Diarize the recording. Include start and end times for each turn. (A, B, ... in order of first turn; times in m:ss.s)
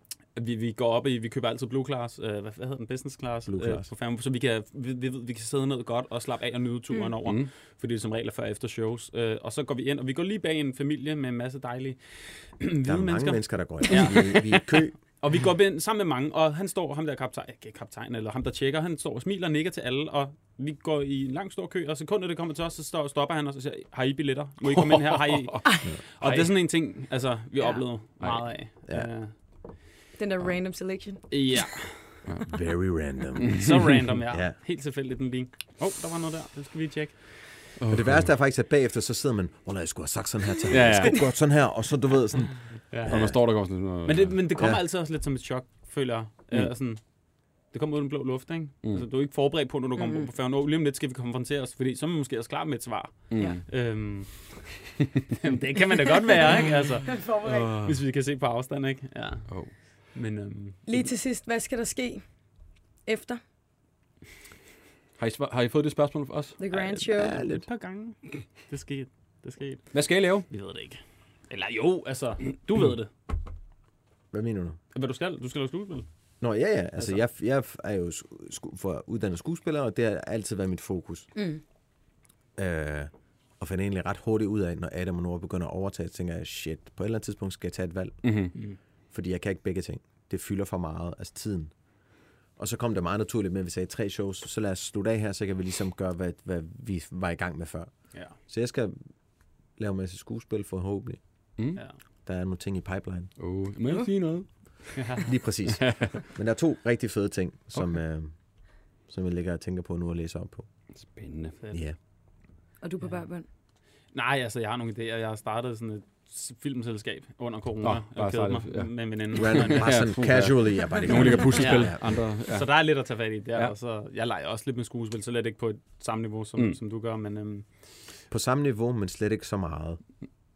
0:00.3-0:29.3 A
0:03.5-0:03.9 B
0:12.8-0:14.9 B
0:24.6-0:26.5 C
0:27.6-0:27.8 D
0:28.2-0:28.6 C
0:30.2-0:31.2 D
0:31.3-0:32.2 A
0:32.3-0:32.6 C
0:32.5-0:33.7 B
0:33.4-0:34.2 C
0:33.6-0:37.6 A
0:34.3-0:34.6 B
0:37.8-0:38.3 C
0:37.9-0:43.4 B
0:40.7-0:41.3 C
0:42.9-0:43.4 A
0:43.1-0:44.4 C
0:44.0-0:47.0 A
0:47.7-0:54.6 A
0:50.0-0:50.3 D
0:53.3-0:53.6 C
0:55.3-0:57.2 A
0:57.0-0:57.8 D
0:57.4-0:57.9 C
0:57.8-0:59.5 A
1:00.1-1:00.9 A
1:00.9-1:02.2 D
1:03.0-1:03.4 D
1:05.2-1:06.6 C
1:06.6-1:07.4 D
1:06.7-1:13.1 A
1:07.2-1:07.6 B
1:09.9-1:10.5 C
1:14.3-1:14.8 B
1:14.9-1:16.1 A
1:16.4-1:21.3 B
1:21.4-1:21.6 D
1:22.6-1:28.3 B
1:28.2-1:28.5 C
1:29.1-1:31.7 B
1:32.6-1:37.9 B
1:38.4-1:38.9 B
1:39.8-1:41.2 B
1:41.6-1:41.8 C
1:42.2-1:43.3 B
1:43.4-1:45.0 C
1:45.0-1:45.2 A
1:45.2-1:48.3 B
1:45.8-1:46.2 C
1:49.1-1:50.7 B
1:51.1-1:51.6 C
1:52.8-1:53.4 D
1:54.1-2:00.0 A
1:57.8-2:02.7 C
1:59.4-2:02.0 B
2:01.1-2:07.7 A
2:08.3-2:10.0 B